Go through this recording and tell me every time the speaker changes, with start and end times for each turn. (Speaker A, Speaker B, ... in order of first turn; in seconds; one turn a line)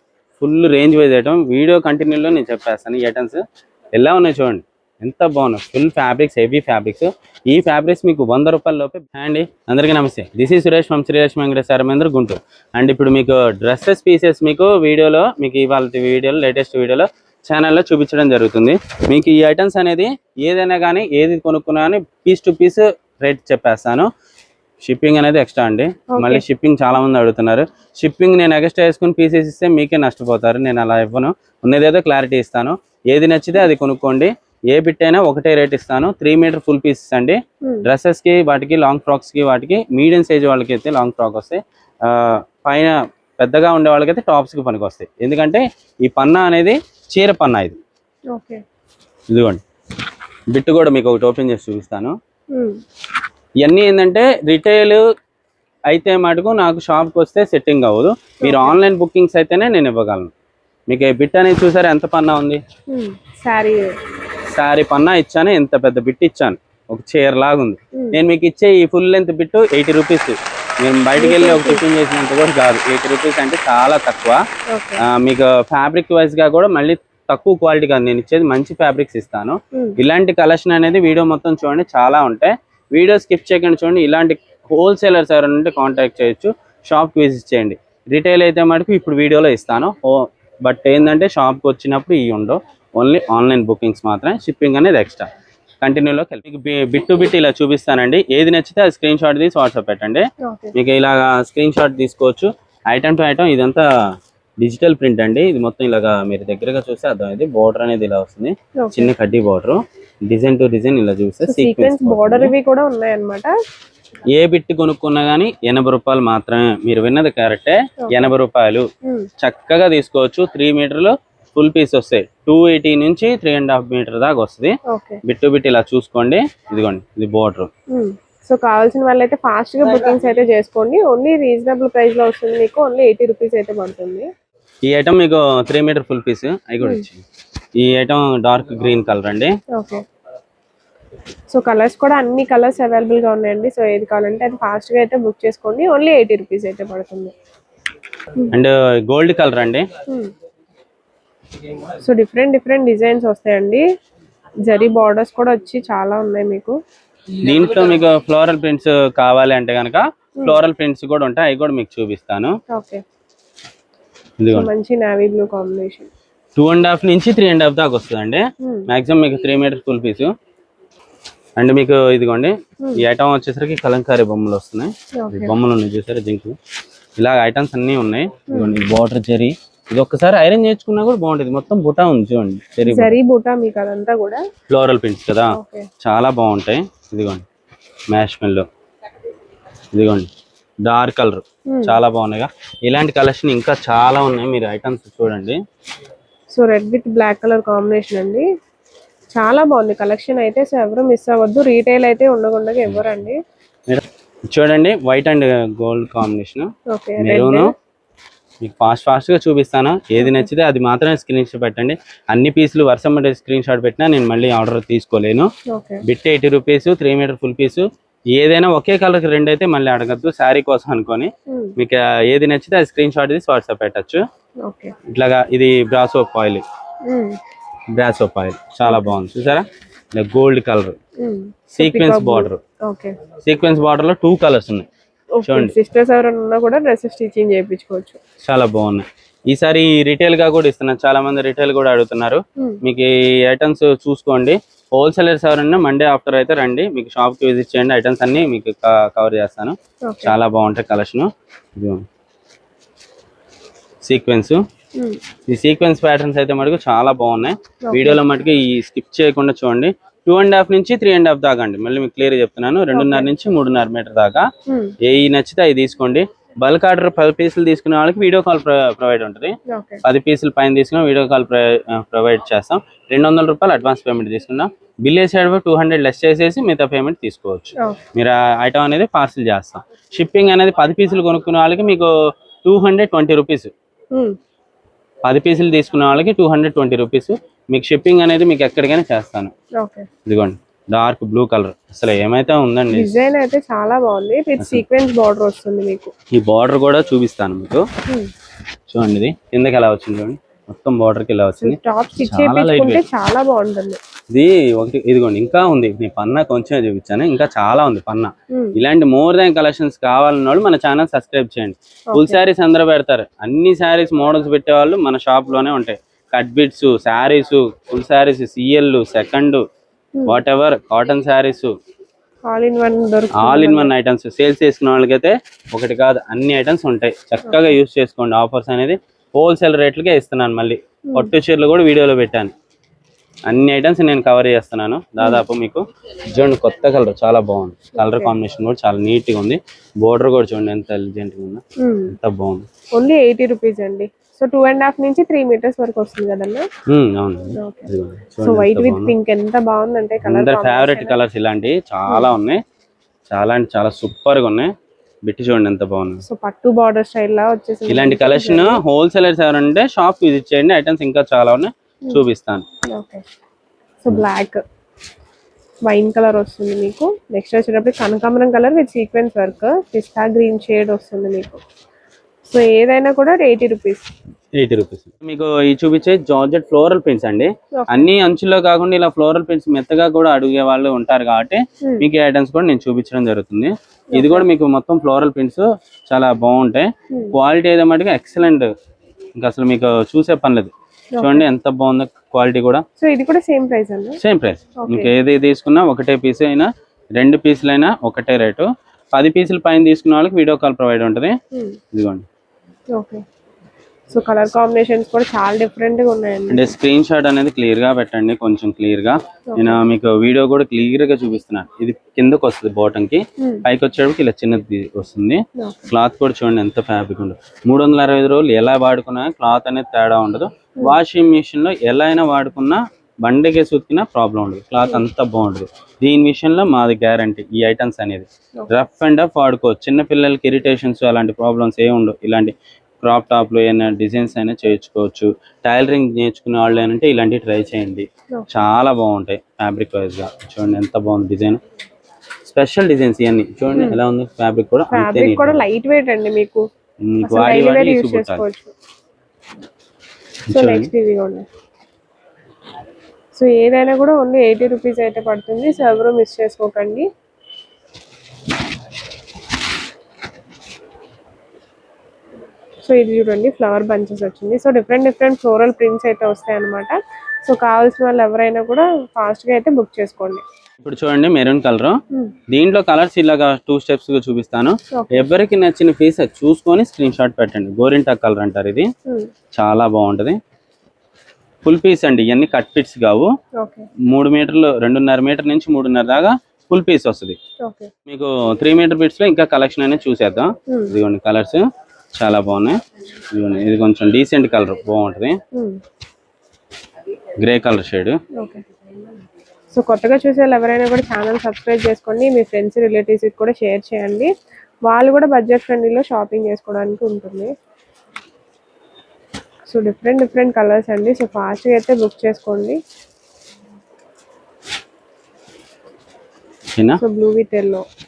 Speaker A: 0.4-3.4
Speaker A: 4.0-24.1
Speaker A: 24.8-47.8
Speaker B: 26.1-26.4
Speaker B: 48.3-48.6
Speaker A: 49.3-49.6
Speaker A: 50.5-52.1
Speaker B: 52.5-52.8
Speaker A: 53.6-55.0
Speaker A: 55.9-60.3
Speaker B: 58.4-58.8
Speaker A: 60.9-62.6
Speaker B: 62.9-64.0
Speaker A: 64.5-74.4
Speaker B: 71.2-71.8
Speaker B: 74.7-75.0
Speaker A: 75.0-95.3
Speaker A: 95.8-103.9
Speaker B: 100.4-100.7
Speaker A: 104.6-112.5
Speaker B: 108.8-109.1
Speaker B: 111.4-113.5
Speaker A: 114.3-118.9
Speaker B: 118.0-118.3
Speaker A: 119.4-127.7
Speaker B: 124.9-125.2
Speaker B: 127.9-134.3
Speaker A: 134.8-137.2
Speaker A: 137.8-139.6
Speaker B: 139.7-140.0
Speaker B: 141.5-147.3
Speaker A: 148.5-149.9
Speaker B: 150.1-150.3
Speaker B: 151.9-153.8
Speaker B: 154.7-156.8
Speaker A: 157.3-162.6
Speaker B: 162.7-163.0
Speaker A: 164.4-164.7
Speaker B: 164.5-166.1
Speaker A: 166.6-170.3
Speaker B: 168.6-168.9
Speaker A: 171.6-176.6
Speaker B: 175.2-175.6
Speaker A: 177.2-183.2
Speaker B: 178.5-178.8
Speaker B: 182.9-184.4
Speaker A: 184.7-187.4
Speaker B: 185.5-185.9
Speaker A: 188.1-188.7
Speaker A: 189.9-190.3
Speaker A: 190.8-195.6
Speaker B: 191.7-192.0
Speaker B: 196.5-198.5
Speaker B: 199.3-203.4
Speaker A: 203.9-207.7
Speaker B: 206.9-207.7
Speaker A: 208.6-215.5
Speaker B: 210.2-210.5
Speaker B: 215.7-216.0
Speaker A: 216.0-224.2
Speaker B: 221.5-221.8
Speaker B: 224.6-224.9
Speaker A: 225.1-226.6
Speaker B: 227.1-227.4
Speaker A: 227.9-231.0
Speaker B: 228.9-229.2
Speaker B: 231.2-233.2
Speaker A: 231.8-232.6
Speaker A: 233.4-234.9
Speaker B: 235.4-238.2
Speaker A: 235.4-235.7
Speaker A: 238.4-252.0
Speaker B: 250.1-250.3
Speaker A: 254.0-254.6
Speaker A: 255.5-264.5
Speaker B: 257.9-258.2
Speaker B: 262.9-263.3
Speaker B: 264.7-264.9
Speaker A: 265.0-282.1
Speaker B: 269.7-270.0
Speaker A: 282.6-283.7
Speaker A: 285.2-289.5
Speaker B: 289.8-290.1
Speaker A: 290.3-293.2
Speaker B: 292.9-296.1
Speaker A: 296.3-297.9
Speaker B: 298.1-298.3
Speaker A: 298.9-303.0
Speaker B: 301.6-304.0
Speaker A: 304.3-319.6
Speaker B: 308.5-308.8
Speaker B: 312.1-312.4
Speaker A: 320.3-321.7
Speaker B: 322.5-323.9
Speaker A: 323.3-332.5
Speaker B: 327.5-327.7
Speaker A: 333.5-342.7
Speaker B: 338.0-338.3
Speaker B: 341.8-342.1
Speaker B: 342.9-346.7
Speaker A: 346.9-349.1
Speaker B: 347.5-347.9
Speaker B: 348.4-351.2
Speaker A: 350.2-352.6
Speaker A: 353.3-354.7
Speaker A: 355.2-356.2
Speaker B: 356.2-358.8
Speaker A: 357.9-362.6
Speaker B: 362.9-363.2
Speaker B: 364.0-364.6
Speaker B: 365.9-371.6
Speaker B: 372.5-374.1
Speaker A: 374.6-388.7
Speaker B: 377.8-378.1
Speaker B: 384.1-384.5
Speaker A: 389.4-392.9
Speaker B: 391.1-391.4
Speaker B: 393.0-394.2
Speaker A: 394.2-401.4
Speaker B: 394.8-395.1
Speaker B: 401.5-401.8
Speaker A: 401.9-402.2
Speaker B: 402.9-403.2
Speaker B: 404.1-406.7
Speaker A: 406.5-441.6
Speaker B: 409.5-409.8
Speaker B: 413.4-413.6
Speaker A: 442.4-445.6
Speaker B: 443.8-444.0
Speaker B: 444.9-446.6
Speaker A: 447.1-448.4
Speaker B: 447.2-448.7
Speaker A: 450.5-450.9
Speaker B: 450.5-451.5
Speaker B: 453.4-457.1
Speaker B: 462.8-470.4
Speaker A: 470.8-472.0
Speaker A: 472.5-478.9
Speaker B: 474.9-475.3
Speaker A: 479.6-480.4
Speaker A: 481.6-483.3
Speaker B: 483.6-483.9
Speaker A: 484.1-487.4
Speaker B: 487.6-487.9
Speaker A: 488.1-491.6
Speaker B: 490.7-490.9
Speaker A: 492.1-492.8
Speaker A: 493.3-495.4
Speaker B: 495.5-495.8
Speaker A: 497.4-498.2
Speaker B: 498.4-498.6
Speaker B: 499.7-504.3
Speaker B: 504.9-507.5
Speaker B: 509.7-512.8
Speaker A: 516.8-517.0
Speaker B: 517.0-517.9